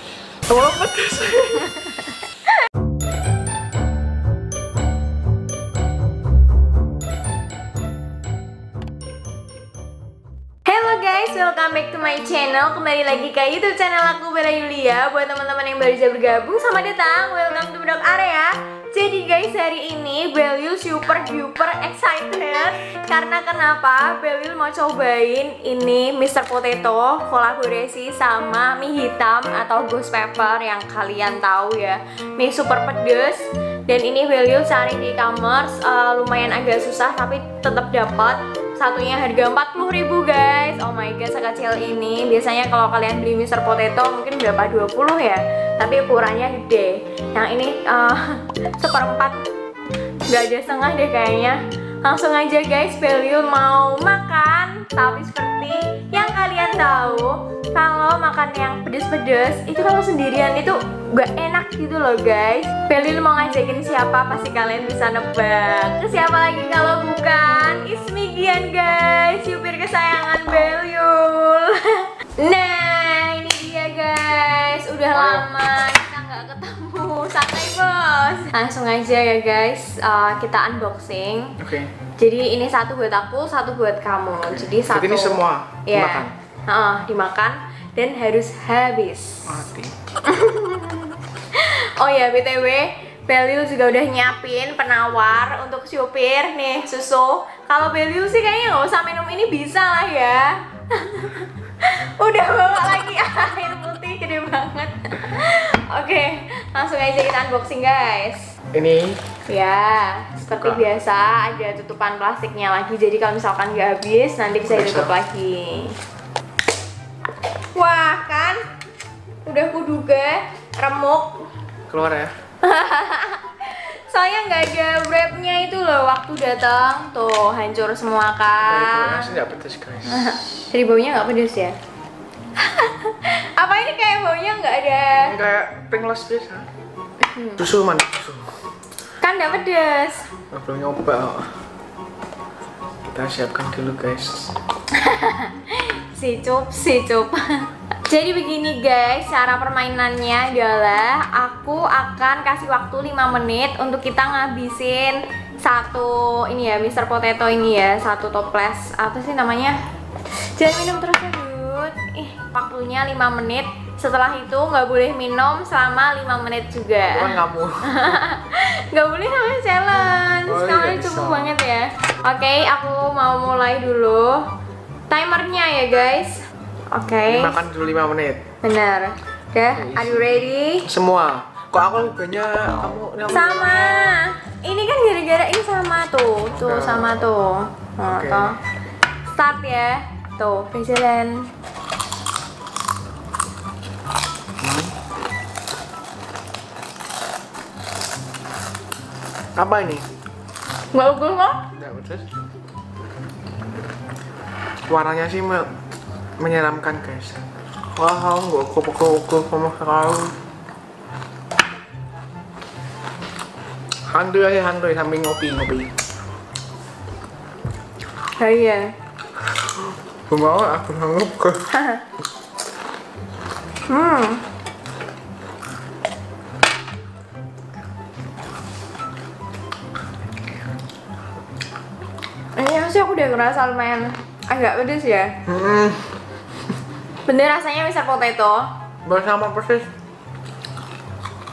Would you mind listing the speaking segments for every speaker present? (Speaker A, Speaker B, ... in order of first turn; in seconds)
Speaker A: 0.5-2.1, 75.1-75.6, 81.6-81.9, 84.4-86.3, 89.5-89.9, 108.7-109.2, 110.4-110.8, 114.6-115.1, 121.9-122.3, 128.6-130.7, 135.2-136.7, 137.6-138.5, 140.5-141.5, 143.1-144.5, 167.1-168.2, 170.4-171.5, 177.3-178.4, 179.7-184.1, 186.5-187.3, 188.0-188.5, 194.6-194.9, 199.6-200.1, 201.7-202.3, 204.9-205.7, 206.4-207.4, 207.9-210.4, 214.1-215.9, 220.3-221.7, 235.4-236.1, 239.0-239.9
Speaker B: 10.7-49.4, 50.3-81.6, 82.2-89.6, 90.2-108.5, 109.5-116.0, 117.7-118.6, 119.5-121.5, 122.6-129.3, 130.1-131.8, 132.6-135.3, 137.2-137.6, 139.2-140.2, 144.9-174.5, 175.1-176.4, 176.9-177.6, 178.6-180.9, 183.3-188.6, 189.3-191.5, 200.9-201.7, 218.4-218.9, 221.7-222.0, 223.9-224.4, 232.6-235.4, 237.2-238.7